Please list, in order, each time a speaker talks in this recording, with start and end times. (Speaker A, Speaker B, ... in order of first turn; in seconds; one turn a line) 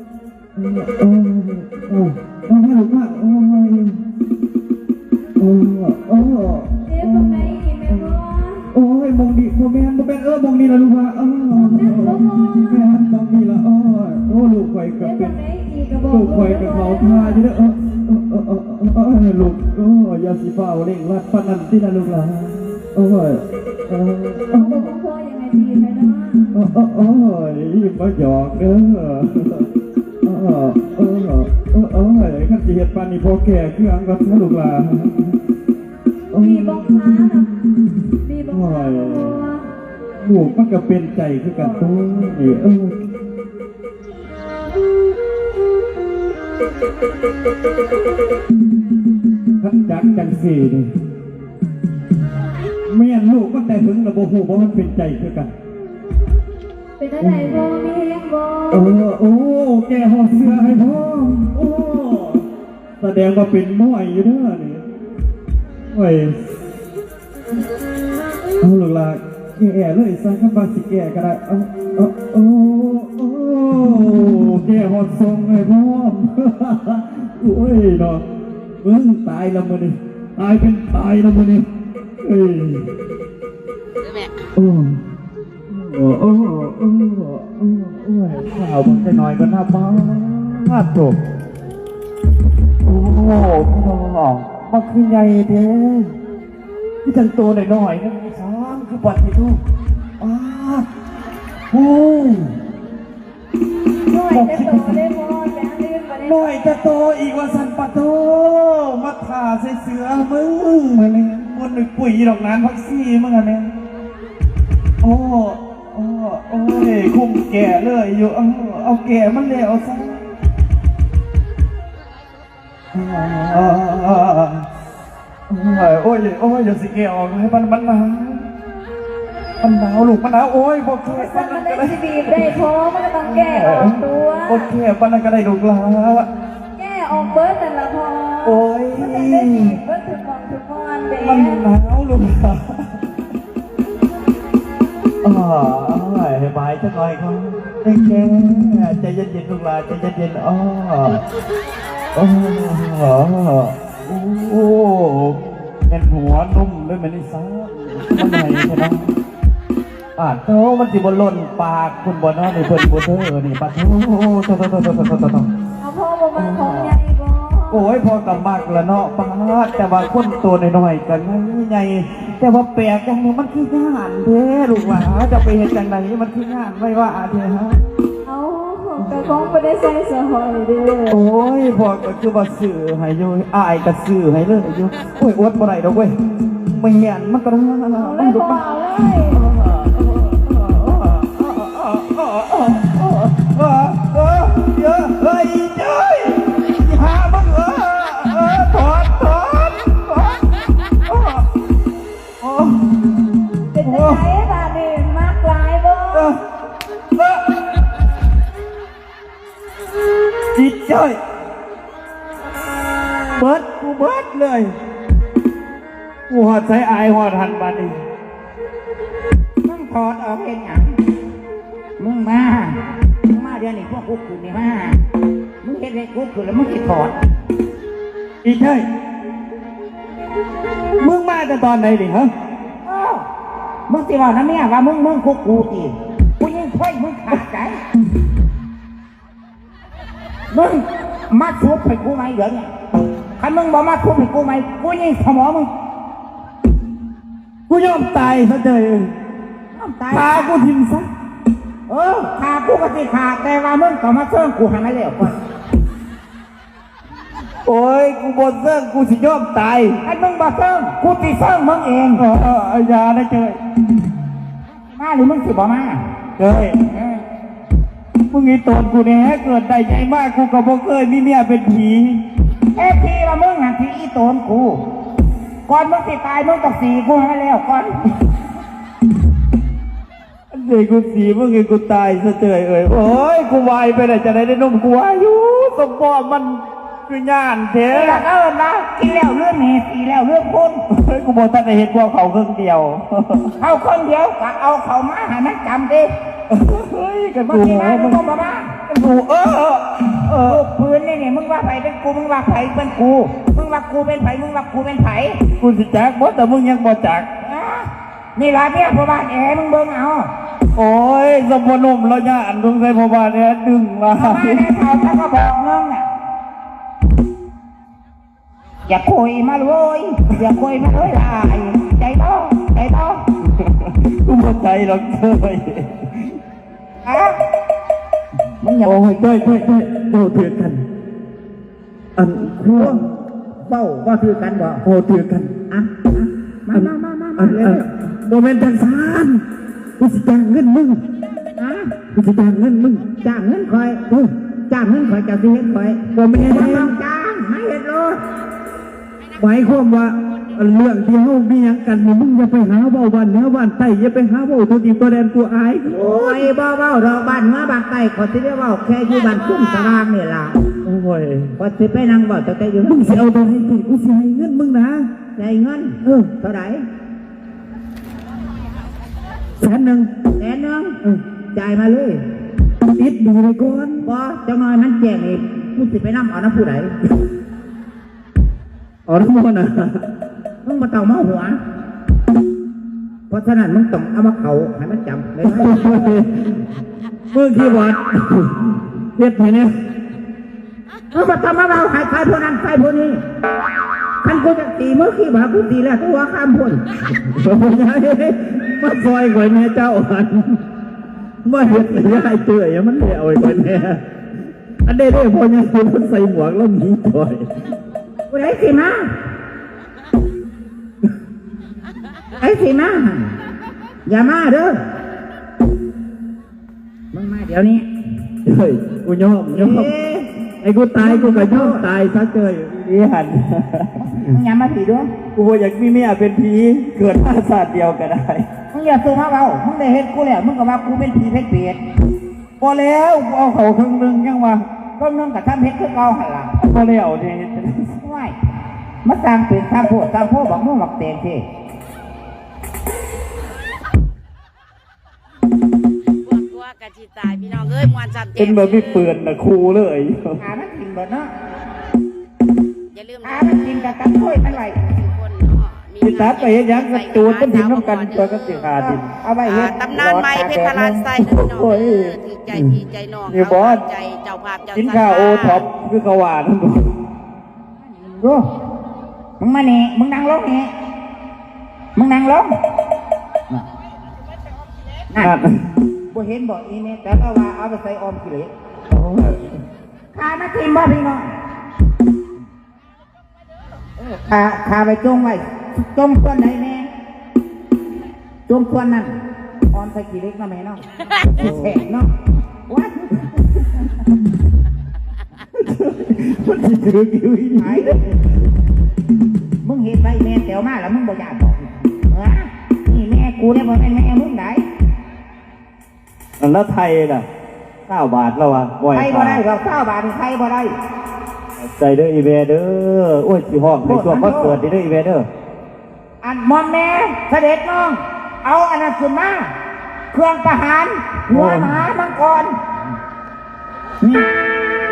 Speaker A: 0.6-4.0
Speaker A: 5.4-15.3
Speaker B: 6.8-8.6
Speaker B: 11.6-12.8
Speaker B: 15.0-17.4
Speaker A: 16.1-24.9
Speaker B: 24.6-26.5
Speaker A: 26.5-29.7
Speaker A: 30.2-35.4
Speaker A: 36.3-37.4
Speaker B: 36.4-37.5
Speaker B: 38.2-39.7
Speaker A: 38.5-39.5
Speaker A: 40.2-43.0
Speaker B: 41.5-41.9
Speaker A: 49.6-50.9
Speaker A: 52.9-55.5
Speaker B: 57.0-58.9
Speaker A: 57.2-57.6
Speaker A: 58.7-62.4
Speaker A: 63.0-64.8
Speaker A: 65.9-66.4
Speaker A: 68.6-78.2
Speaker A: 78.8-81.7
Speaker A: 82.2-82.9
Speaker A: 84.5-85.0
Speaker A: 85.7-91.2
Speaker A: 92.8-96.1
Speaker A: 97.0-99.6
Speaker A: 100.2-100.8
Speaker A: 101.7-102.5
Speaker B: 104.1-106.5
Speaker A: 104.3-105.0
Speaker A: 106.2-113.7
Speaker A: 115.0-120.2
Speaker A: 122.9-124.6
Speaker A: 125.5-128.5
Speaker A: 129.6-132.6
Speaker B: 131.1-134.7
Speaker A: 133.2-136.3
Speaker B: 136.8-141.6
Speaker A: 138.4-139.8
Speaker A: 141.1-143.0
Speaker A: 145.2-151.2
Speaker A: 152.1-155.4
Speaker A: 155.9-159.1
Speaker A: 160.2-165.5
Speaker B: 165.8-167.8
Speaker A: 166.3-166.9
Speaker A: 167.7-177.8
Speaker B: 178.2-181.2
Speaker A: 179.0-179.4
Speaker A: 181.1-200.4
Speaker B: 188.0-189.4
Speaker A: 201.0-201.4
Speaker A: 202.4-203.1
Speaker B: 203.7-206.3
Speaker A: 203.8-204.2
Speaker A: 206.1-206.4
Speaker A: 207.1-207.5
Speaker A: 210.6-211.2
Speaker A: 213.4-214.7
Speaker A: 216.3-218.0
Speaker C: 219.6-220.8
Speaker C: 222.0-225.0
Speaker C: 225.6-227.2
Speaker A: 228.4-228.8
Speaker A: 231.0-232.3
Speaker C: 232.8-233.2
Speaker C: 233.9-237.8
Speaker C: 240.5-242.7
Speaker C: 243.4-245.7
Speaker A: 247.7-249.1
Speaker C: 249.7-250.7
Speaker A: 250.1-251.1
Speaker C: 251.9-255.3
Speaker A: 257.6-260.0
Speaker C: 260.0-262.2
Speaker A: 262.1-263.6
Speaker C: 264.7-266.0
Speaker A: 266.4-266.8
Speaker C: 266.9-267.2
Speaker A: 268.3-272.2
Speaker C: 272.7-274.8
Speaker C: 275.7-277.9
Speaker A: 280.5-288.2
Speaker C: 287.9-290.8
Speaker A: 290.9-293.6
Speaker C: 293.6-296.1
Speaker A: 296.5-298.2
Speaker C: 297.4-298.7
Speaker A: 298.9-300.6
Speaker C: 300.4-305.4
Speaker A: 305.5-307.3
Speaker C: 307.4-310.3
Speaker A: 310.7-314.6
Speaker C: 314.1-316.1
Speaker C: 318.9-323.2
Speaker A: 323.4-326.4
Speaker C: 327.0-327.4
Speaker C: 328.6-329.0
Speaker A: 328.8-330.8
Speaker A: 332.1-333.1
Speaker C: 332.7-333.0
Speaker C: 333.6-334.8
Speaker A: 334.8-335.5
Speaker C: 335.7-337.8
Speaker A: 336.7-339.4
Speaker A: 340.0-341.0
Speaker C: 341.6-341.9
Speaker A: 342.1-343.1
Speaker C: 343.2-344.0
Speaker C: 344.7-348.2
Speaker A: 346.1-346.9
Speaker A: 349.4-356.5
Speaker C: 355.9-360.6
Speaker A: 360.8-361.5
Speaker C: 361.6-363.2
Speaker A: 362.8-365.1
Speaker C: 365.4-366.8
Speaker A: 366.0-366.3
Speaker A: 369.6-370.1
Speaker C: 370.4-371.0
Speaker C: 371.5-372.2
Speaker A: 372.8-374.1
Speaker C: 374.0-376.9
Speaker A: 379.1-380.0
Speaker C: 380.6-381.6
Speaker C: 383.3-386.0
Speaker A: 385.4-386.6
Speaker A: 387.3-389.7
Speaker C: 391.1-393.2
Speaker C: 394.2-396.8
Speaker A: 397.1-400.6
Speaker A: 401.4-404.0
Speaker C: 401.6-402.3
Speaker A: 404.8-407.5
Speaker C: 408.3-409.1
Speaker C: 412.4-413.3
Speaker C: 414.1-414.8
Speaker C: 417.1-417.9
Speaker A: 418.4-419.9
Speaker C: 419.5-420.3
Speaker A: 420.6-424.4
Speaker C: 421.0-421.8
Speaker C: 423.9-425.1
Speaker A: 425.3-428.5
Speaker C: 428.7-431.8
Speaker A: 432.6-434.6
Speaker C: 435.0-436.5
Speaker A: 436.6-438.0
Speaker C: 438.0-438.4
Speaker C: 439.0-441.4
Speaker D: 446.3-448.9
Speaker A: 448.3-450.4
Speaker C: 450.4-451.3
Speaker D: 452.9-453.4
Speaker C: 453.2-454.8
Speaker D: 454.9-458.6
Speaker A: 456.0-459.1
Speaker C: 458.8-461.0
Speaker D: 459.6-465.6
Speaker A: 461.1-463.8
Speaker A: 464.7-466.9
Speaker C: 468.0-468.5
Speaker C: 469.4-470.7
Speaker C: 471.9-472.5
Speaker A: 475.2-475.6
Speaker C: 476.1-478.5
Speaker A: 478.9-479.5
Speaker C: 480.1-481.3
Speaker C: 484.0-486.9
Speaker C: 488.5-489.1
Speaker C: 489.7-492.1
Speaker A: 491.3-491.8
Speaker C: 492.7-493.9
Speaker A: 495.5-498.3
Speaker C: 497.6-498.0
Speaker C: 499.6-504.6
Speaker A: 506.4-507.2
Speaker A: 507.9-509.4
Speaker C: 508.9-510.7
Speaker A: 511.6-515.3
Speaker C: 513.8-514.6
Speaker C: 516.2-519.5
Speaker C: 520.1-522.5
Speaker A: 521.3-521.8
Speaker C: 524.0-524.2